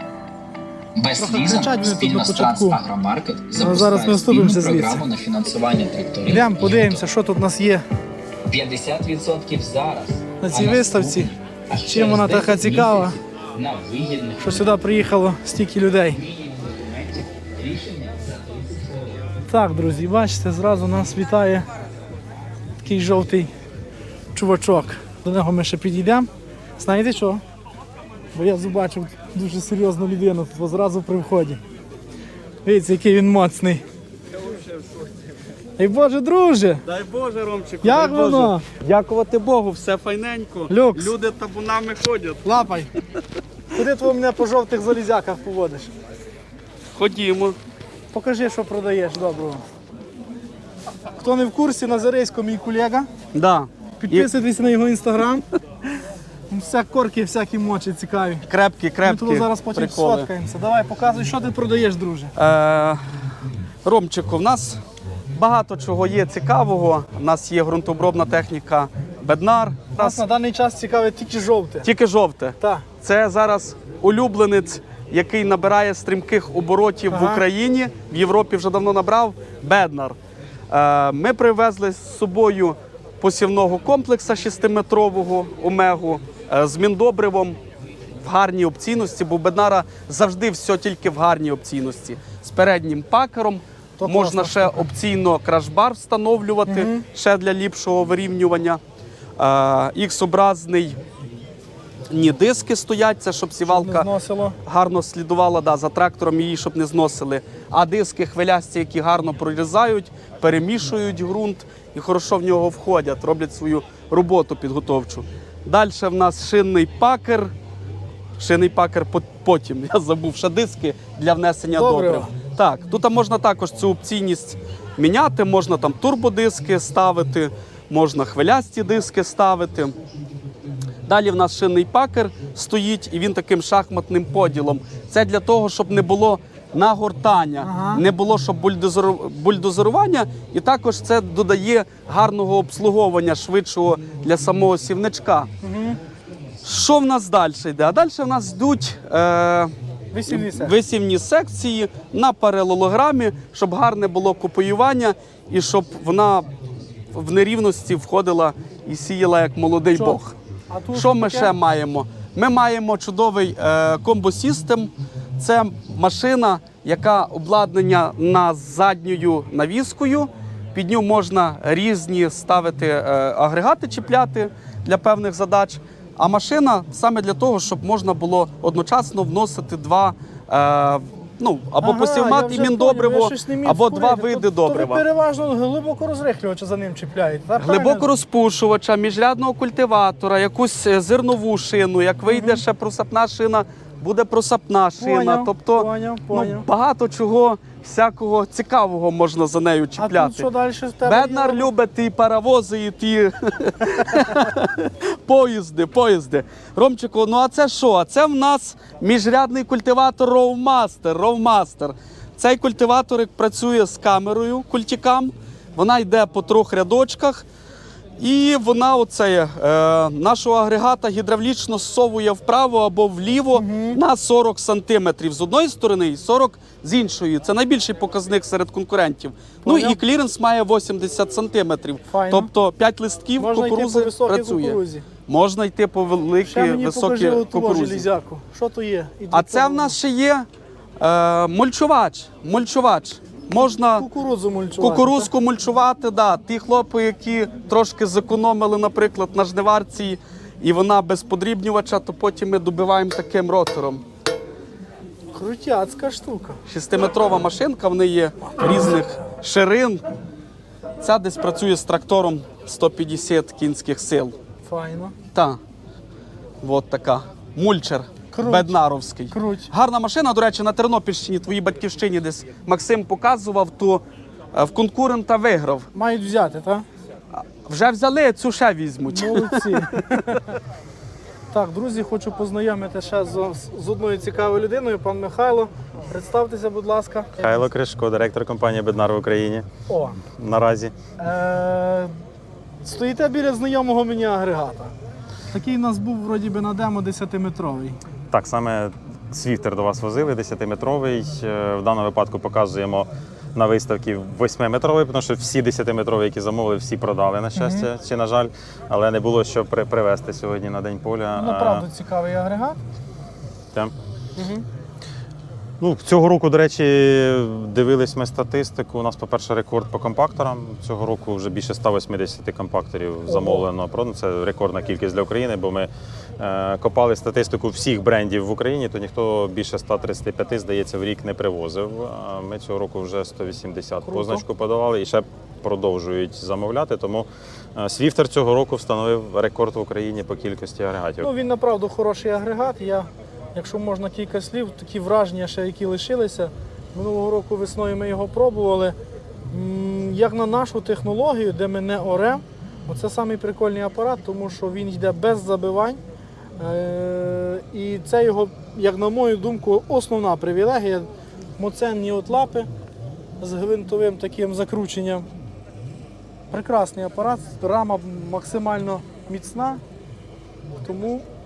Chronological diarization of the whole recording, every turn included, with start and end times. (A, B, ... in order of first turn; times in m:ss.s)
0:01.0-0:07.0 A
0:01.2-0:02.8 B
0:03.6-0:05.0 B
0:06.2-0:07.8 B
0:08.5-0:14.8 A
0:10.4-0:13.2 B
0:14.4-0:16.2 B
0:16.1-0:19.3 A
0:19.5-0:21.7 B
0:22.8-0:23.5 B
0:24.3-0:27.4 B
0:28.3-0:31.6 B
0:32.6-0:33.8 B
0:34.4-0:35.1 C
0:35.8-0:36.8 B
0:36.9-0:42.6 C
0:37.8-0:38.6 B
0:40.7-0:41.2 B
0:42.4-0:42.9 B
0:43.7-0:45.9 B
0:47.0-0:47.6 C
0:48.1-0:49.6 B
0:51.1-0:53.1 B
0:53.3-0:54.3 C
0:54.0-0:55.5 B
0:56.5-0:58.5 B
0:58.5-1:00.3 C
0:59.0-1:02.3 B
1:02.4-1:03.0 C
1:03.8-1:04.8 C
1:05.3-1:10.2 C
1:10.0-1:11.9 B
1:11.8-1:20.2 C
1:12.6-1:12.9 B
1:17.1-1:17.4 B
1:20.7-1:27.6 C
1:28.2-1:38.8 C
1:34.0-1:34.8 B
1:36.7-1:37.0 B
1:39.4-1:41.0 C
1:42.1-1:44.1 C
1:43.6-1:44.6 B
1:44.6-1:57.5 C
1:58.4-2:09.9 C
2:01.7-2:02.3 B
2:11.1-2:25.5 C
2:17.6-2:18.0 B
2:25.6-2:26.0 B
2:26.6-2:29.7 C
2:30.1-2:30.8 B
2:30.3-2:36.5 C
2:37.1-2:40.4 C
2:39.9-2:40.2 B
2:40.7-2:41.5 B
2:40.9-3:05.0 C
3:01.8-3:08.1 B
3:07.6-3:20.5 C
3:12.3-3:12.6 B
3:15.0-3:16.6 B
3:20.0-3:21.7 B
3:21.0-3:37.4 C
3:38.2-3:58.1 C
3:43.5-3:44.0 B
3:49.6-3:50.0 B
3:52.1-3:52.5 B
3:53.4-3:55.0 B
3:56.5-4:00.0 B
3:59.3-4:00.4 C
4:01.0-4:04.1 C
4:04.0-4:05.3 B
4:04.8-4:14.0 C
4:15.3-4:16.6 B
4:16.7-4:20.0 C
4:21.0-4:24.3 C
4:24.6-4:25.1 B
4:26.6-4:34.0 C
4:28.3-4:28.8 B
4:29.3-4:29.7 B
4:34.5-4:35.9 C
4:35.9-4:36.8 B
4:37.3-4:40.0 C
4:39.1-4:40.5 B
4:41.5-4:47.5 B
4:47.4-4:49.7 D
4:49.9-4:50.2 B
4:50.2-4:50.9 D
4:51.2-4:52.1 B
4:52.8-4:54.9 B
4:55.5-4:58.0 B
4:58.3-5:11.8 D
5:07.6-5:07.9 B
5:11.3-5:12.8 B
5:14.4-5:14.6 B
5:15.8-5:41.3 D
5:23.3-5:23.6 B
5:34.0-5:34.4 B
5:41.2-5:49.0 B
5:49.5-5:56.0 B
5:56.6-6:02.7 B
6:03.4-6:05.3 B
6:06.5-6:09.8 B
6:10.8-6:11.2 B